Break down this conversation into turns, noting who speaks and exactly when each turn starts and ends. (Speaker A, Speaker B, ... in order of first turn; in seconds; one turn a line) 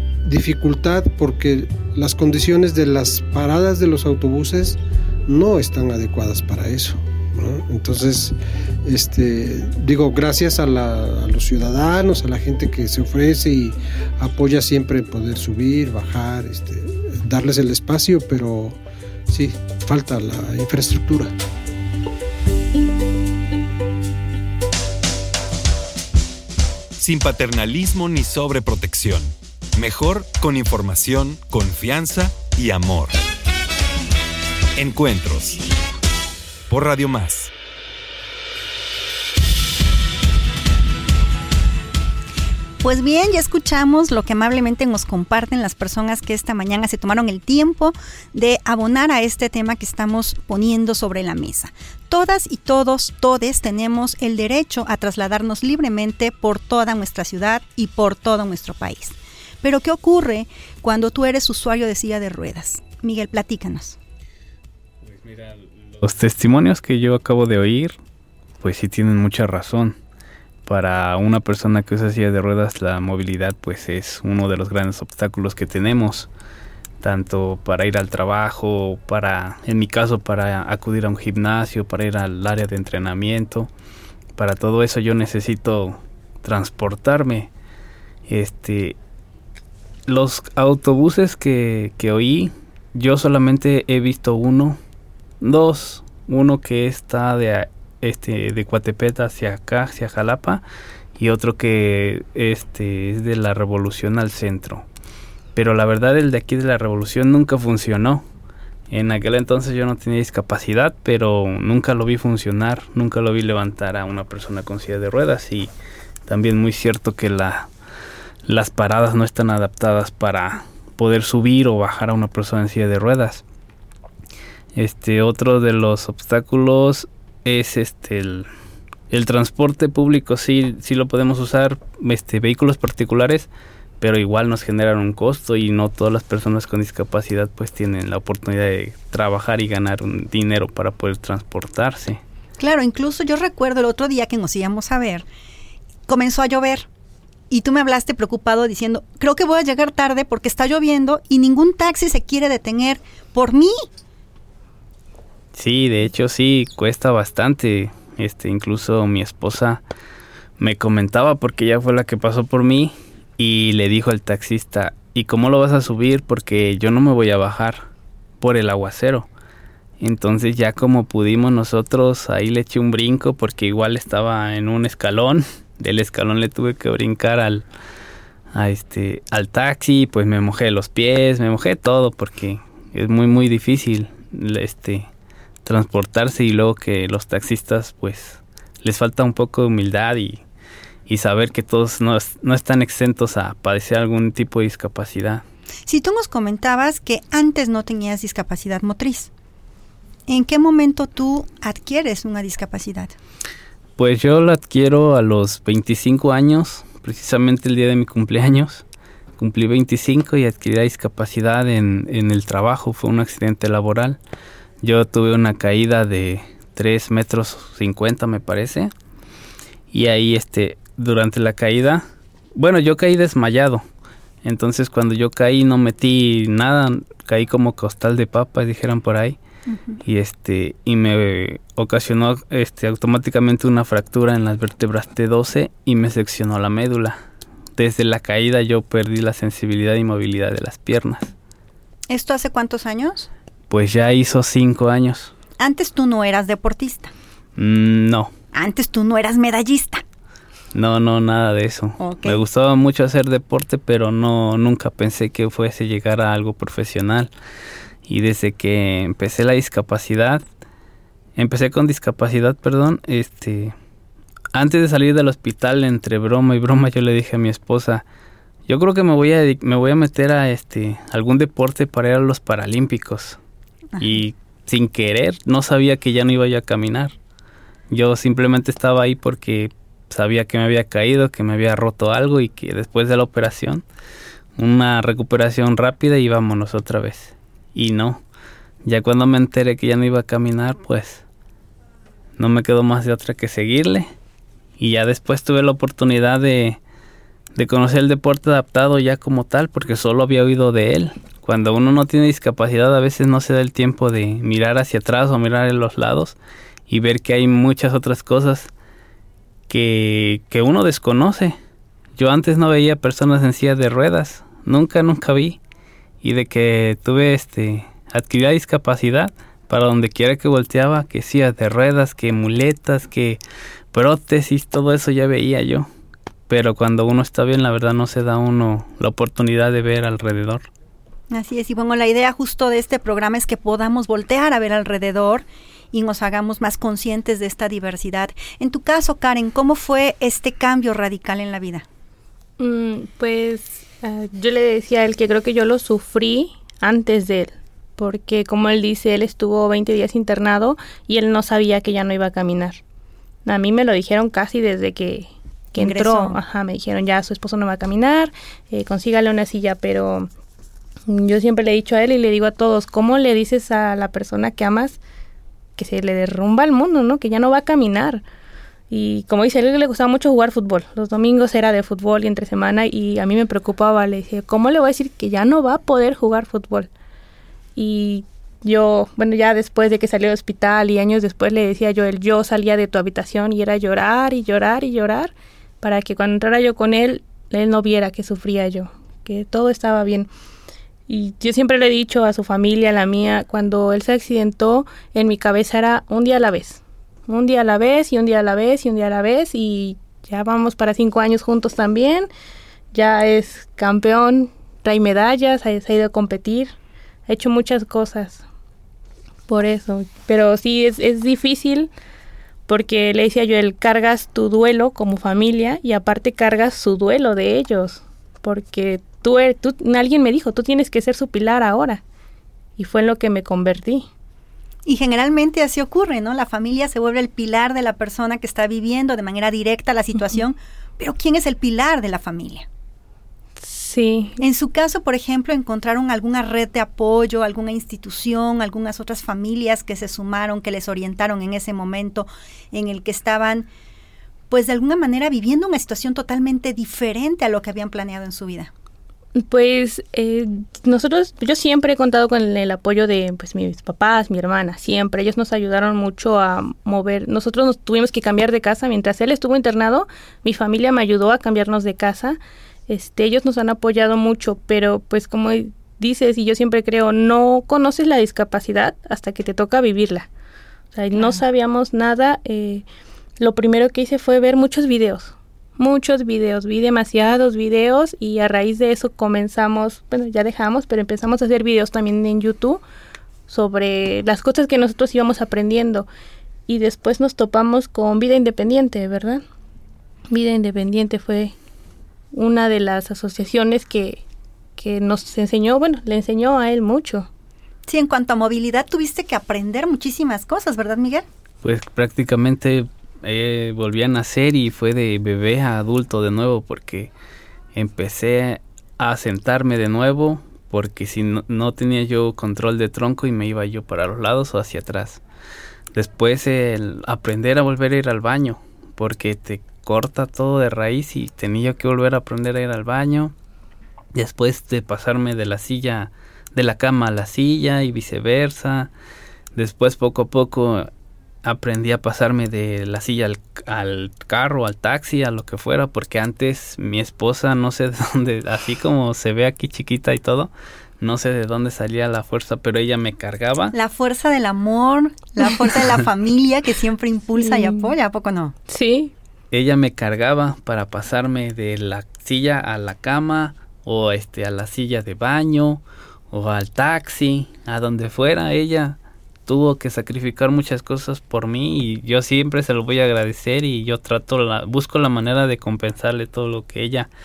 Speaker A: 0.2-21.3
Speaker B: 27.0-33.2
Speaker B: 34.8-35.6
Speaker B: 36.7-37.5
Speaker C: 42.8-64.0
Speaker D: 65.2-68.0
Speaker D: 68.6-70.0
Speaker D: 70.6-76.3
Speaker D: 77.0-83.7
Speaker D: 84.3-87.5
Speaker D: 88.3-89.0
Speaker D: 90.1-94.8
Speaker D: 95.4-100.6
Speaker D: 101.2-104.8
Speaker D: 105.5-108.2
Speaker D: 108.9-115.7
Speaker D: 116.3-117.7
Speaker D: 118.5-123.4
Speaker D: 124.7-128.5
Speaker D: 129.1-133.5
Speaker D: 134.0-142.2
Speaker C: 142.6-145.2
Speaker C: 146.1-146.9
Speaker C: 147.5-153.7
Speaker D: 155.5-159.8
Speaker D: 160.6-167.9
Speaker D: 168.4-169.3
Speaker D: 170.0-177.7
Speaker D: 178.5-185.1
Speaker D: 185.6-190.4
Speaker D: 191.1-195.4
Speaker C: 195.9-199.3
Speaker C: 200.3-203.1
Speaker D: 204.0-208.8
Speaker D: 209.4-214.2
Speaker D: 214.8-218.9
Speaker D: 219.9-223.8
Speaker D: 224.4-229.4
Speaker C: 229.7-230.0
Speaker D: 230.0-237.2
Speaker D: 237.8-241.3
Speaker C: 242.1-243.3
Speaker D: 243.7-245.3
Speaker C: 245.6-247.1
Speaker D: 247.6-248.3
Speaker C: 248.5-250.0
Speaker D: 250.7-257.3
Speaker C: 252.0-252.4
Speaker D: 258.1-260.4
Speaker D: 261.4-263.7
Speaker D: 264.5-268.0
Speaker D: 268.7-273.4
Speaker D: 274.0-277.1
Speaker D: 277.9-283.8
Speaker D: 284.6-288.2
Speaker D: 288.8-291.2
Speaker D: 292.4-294.1
Speaker D: 294.8-296.8
Speaker D: 297.5-306.4
Speaker D: 306.9-308.7
Speaker D: 309.7-311.6
Speaker D: 312.2-315.6
Speaker D: 316.2-323.4
Speaker D: 323.9-325.9
Speaker D: 326.5-330.6
Speaker C: 331.3-341.8
Speaker E: 342.6-352.8
Speaker E: 353.4-360.3
Speaker C: 355.8-356.4
Speaker E: 361.1-365.0
Speaker E: 365.8-368.2
Speaker E: 368.9-376.9
Speaker E: 377.8-390.3
Speaker E: 391.1-402.3
Speaker E: 402.9-406.7
Speaker E: 407.3-408.4
Speaker E: 409.5-411.9
Speaker E: 412.7-422.0
Speaker E: 422.8-424.1
Speaker C: 424.9-432.6
Speaker E: 433.6-434.4
Speaker C: 434.4-443.7
Speaker C: 444.5-448.7
Speaker E: 449.4-470.3
Speaker E: 470.9-472.8
Speaker C: 471.1-471.4
Speaker E: 473.4-482.8
Speaker E: 483.5-486.1
Speaker E: 486.7-489.4
Speaker E: 490.3-491.5
Speaker E: 492.3-494.2
Speaker E: 494.8-497.3
Speaker C: 497.9-501.2
Speaker D: 501.6-507.1
Speaker D: 507.7-515.2
Speaker D: 515.9-523.3
Speaker D: 524.1-528.9
Speaker D: 529.5-530.9
Speaker D: 531.4-543.7
Speaker C: 543.7-548.5
Speaker E: 547.4-547.9
Speaker E: 548.7-549.1
Speaker D: 549.5-567.1